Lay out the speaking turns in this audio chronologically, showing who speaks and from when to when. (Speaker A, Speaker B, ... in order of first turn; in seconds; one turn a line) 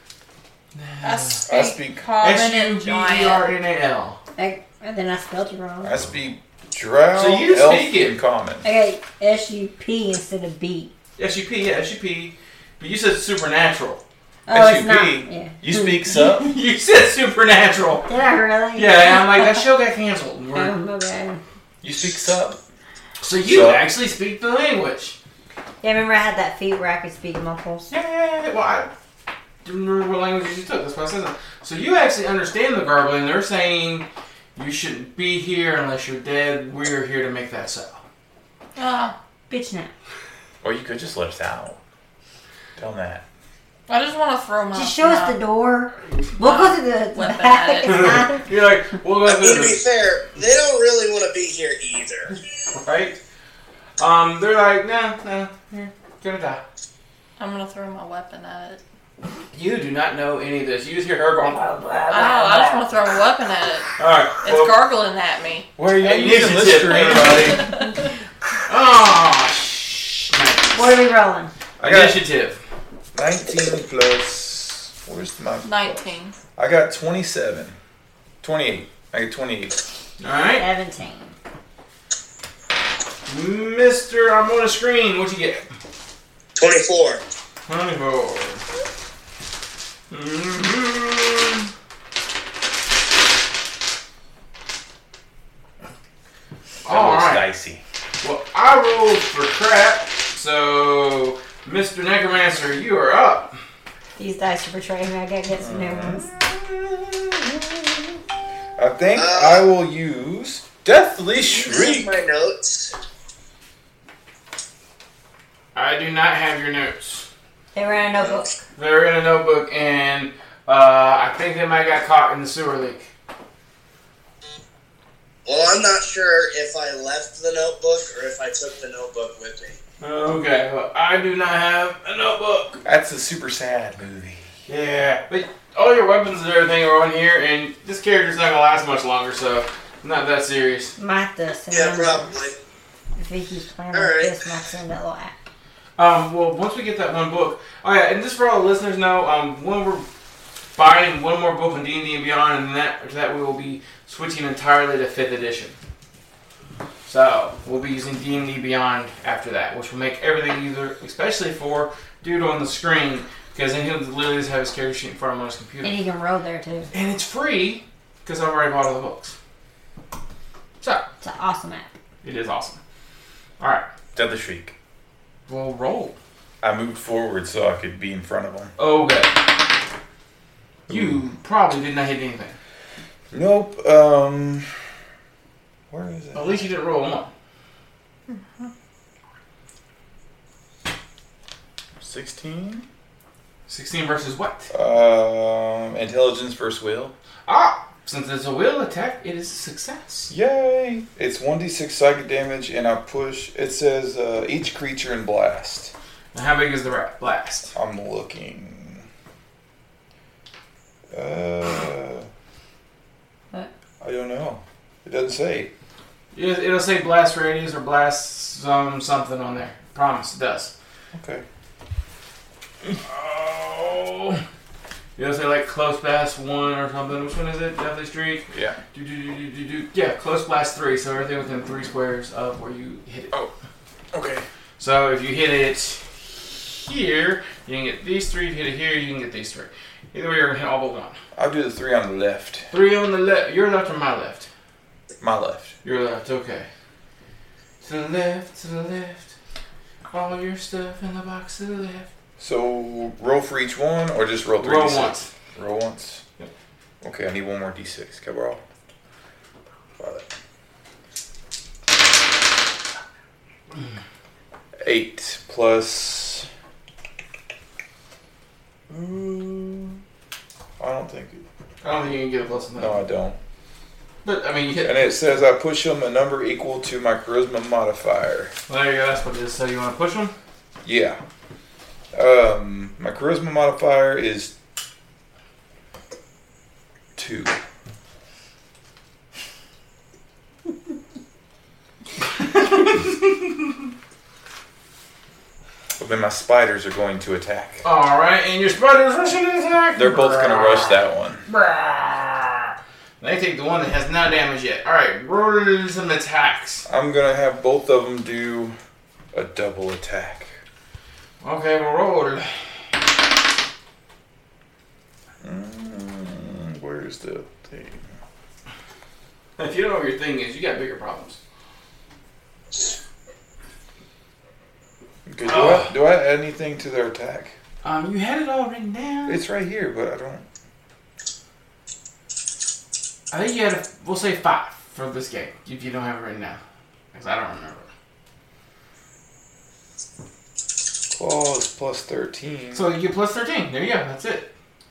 Speaker A: 0.7-1.4
Speaker B: 1.0-3.5
Speaker C: 1.5-2.0
Speaker A: 2.2-4.2
Speaker D: 4.4-6.0
Speaker C: 5.8-8.7
Speaker A: 7.2-8.2
Speaker D: 8.6-10.9
Speaker A: 11.2-14.0
Speaker D: 14.5-15.9
Speaker C: 14.5-16.5
Speaker A: 16.1-18.1
Speaker D: 18.1-19.3
Speaker A: 18.8-20.8
Speaker D: 20.5-21.4
Speaker C: 21.8-22.6
Speaker A: 23.2-25.2
Speaker C: 23.4-23.9
Speaker D: 25.8-27.9
Speaker A: 27.9-28.9
Speaker A: 29.6-38.0
Speaker B: 38.8-39.1
Speaker D: 39.5-39.9
Speaker C: 40.6-41.8
Speaker C: 42.8-43.2
Speaker B: 43.9-45.4
Speaker D: 44.7-48.5
Speaker B: 46.4-48.2
Speaker A: 47.9-49.8
Speaker E: 49.2-52.3
Speaker A: 52.7-53.2
Speaker A: 54.0-56.6
Speaker B: 57.4-58.8
Speaker A: 59.5-61.9
Speaker D: 61.6-62.9
Speaker B: 62.1-65.7
Speaker A: 64.0-64.8
Speaker C: 65.8-67.7
Speaker A: 66.0-67.7
Speaker B: 67.5-68.0
Speaker A: 68.7-71.0
Speaker D: 70.8-71.5
Speaker C: 71.8-72.2
Speaker A: 71.8-72.6
Speaker C: 73.1-76.0
Speaker B: 75.6-76.4
Speaker C: 76.6-77.8
Speaker C: 78.4-79.8
Speaker A: 80.2-80.7
Speaker D: 80.6-81.3
Speaker A: 83.3-85.6
Speaker E: 86.6-87.2
Speaker A: 87.7-88.7
Speaker A: 90.1-91.7
Speaker A: 96.8-97.5
Speaker C: 96.9-97.8
Speaker A: 98.2-103.5
Speaker D: 104.2-106.3
Speaker C: 105.6-108.2
Speaker C: 108.8-112.1
Speaker E: 109.2-109.6
Speaker E: 111.5-113.0
Speaker A: 115.8-117.3
Speaker D: 117.7-118.6
Speaker E: 118.2-118.4
Speaker A: 118.8-123.1
Speaker E: 125.5-129.8
Speaker A: 130.0-132.8
Speaker C: 132.8-134.5
Speaker A: 134.7-140.9
Speaker D: 141.0-142.3
Speaker E: 141.7-142.6
Speaker D: 143.2-145.3
Speaker E: 143.9-144.4
Speaker A: 146.0-150.1
Speaker A: 150.8-155.8
Speaker A: 157.1-166.0
Speaker D: 165.8-166.9
Speaker A: 166.9-169.4
Speaker D: 171.2-171.9
Speaker A: 172.2-172.8
Speaker A: 173.6-173.9
Speaker C: 174.2-174.7
Speaker A: 175.5-176.2
Speaker C: 176.6-178.7
Speaker A: 178.8-179.4
Speaker C: 180.9-181.2
Speaker A: 180.9-182.6
Speaker C: 183.3-184.8
Speaker C: 185.9-186.7
Speaker A: 186.3-187.3
Speaker C: 192.0-192.9
Speaker A: 193.7-194.7
Speaker C: 194.7-197.1
Speaker A: 197.5-200.3
Speaker C: 200.3-205.9
Speaker A: 206.3-207.8
Speaker C: 207.8-209.1
Speaker C: 211.1-212.3
Speaker C: 214.0-215.7
Speaker A: 216.3-220.7
Speaker C: 221.1-221.4
Speaker A: 222.8-224.4
Speaker A: 225.2-233.4
Speaker C: 228.5-228.8
Speaker C: 234.1-234.5
Speaker A: 234.8-241.2
Speaker C: 241.3-242.7
Speaker A: 242.7-244.5
Speaker C: 245.2-245.7
Speaker A: 245.8-246.7
Speaker A: 247.8-249.3
Speaker A: 250.1-252.1
Speaker C: 252.4-256.2
Speaker A: 254.6-255.3
Speaker C: 257.0-258.6
Speaker C: 260.0-260.3
Speaker C: 264.8-266.5
Speaker C: 268.9-270.0
Speaker C: 270.8-271.4
Speaker A: 271.8-273.1
Speaker C: 272.8-273.4
Speaker A: 274.2-275.2
Speaker C: 274.8-278.5
Speaker A: 278.7-280.3
Speaker C: 280.8-281.2
Speaker C: 282.1-284.5
Speaker C: 287.2-287.6
Speaker A: 292.3-293.9
Speaker C: 296.0-297.8
Speaker A: 297.8-306.9
Speaker C: 299.9-301.4
Speaker C: 306.9-308.8
Speaker C: 309.3-310.5
Speaker A: 311.4-312.5
Speaker C: 315.4-318.0
Speaker A: 319.6-321.4
Speaker C: 325.3-327.6
Speaker A: 325.4-326.0
Speaker A: 327.8-329.4
Speaker C: 329.3-330.5
Speaker A: 333.3-336.6
Speaker A: 337.1-337.9
Speaker C: 341.1-342.9
Speaker A: 342.7-344.5